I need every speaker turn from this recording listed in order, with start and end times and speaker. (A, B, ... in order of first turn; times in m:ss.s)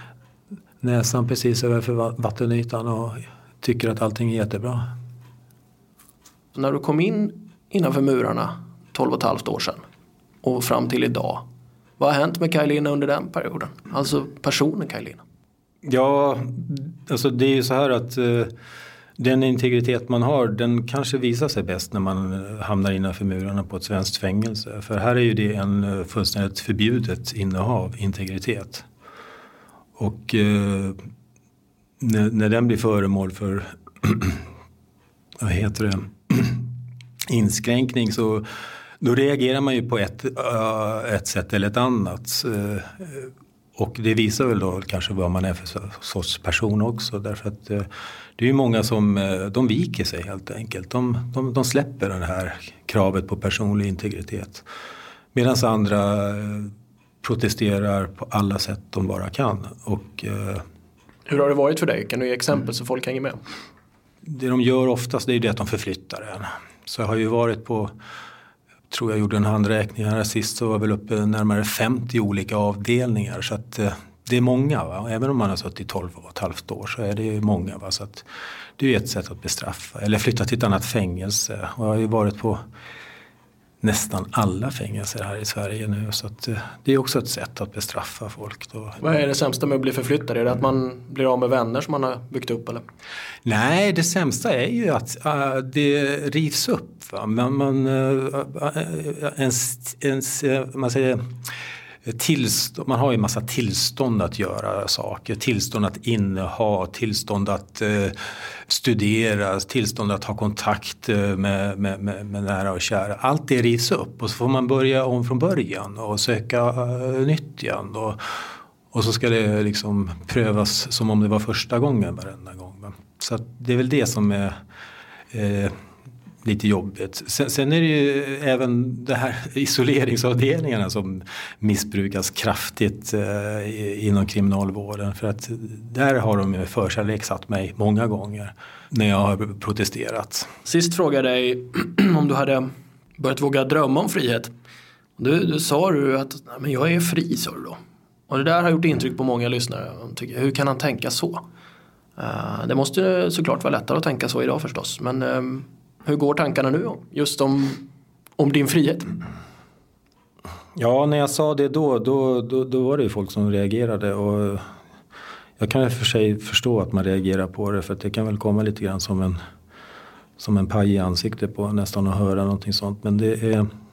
0:00.8-0:04.9 A
0:06.5-0:09.8 B
0:10.4-0:11.4 B
0:12.0-0:15.2 B
0:15.8-0:18.5 A
0:19.2-0:28.8 A
0:30.0-0:31.0 A
0:32.0-0:34.4 A
0:35.4-0:36.7 A
0:37.3-0:38.4 A
0:39.0-0:54.6 A
0:55.3-1:00.6 A
1:01.3-1:03.4 B
1:04.2-1:07.9 A
1:08.9-1:18.3 A
1:18.8-1:22.6 A
1:23.8-1:29.0 A
1:29.0-1:32.8 B
1:33.4-1:41.3 A
1:42.0-1:48.2 A
1:48.7-2:04.6 A
2:05.3-2:05.7 A
2:06.4-2:20.5 A
2:20.6-2:24.5 B
2:25.2-2:27.8 B
2:28.3-2:31.4 B
2:32.2-2:37.8 B
2:38.4-2:39.1 B
2:40.8-2:44.6 A
2:45.6-2:49.4 A
2:50.4-2:53.7 A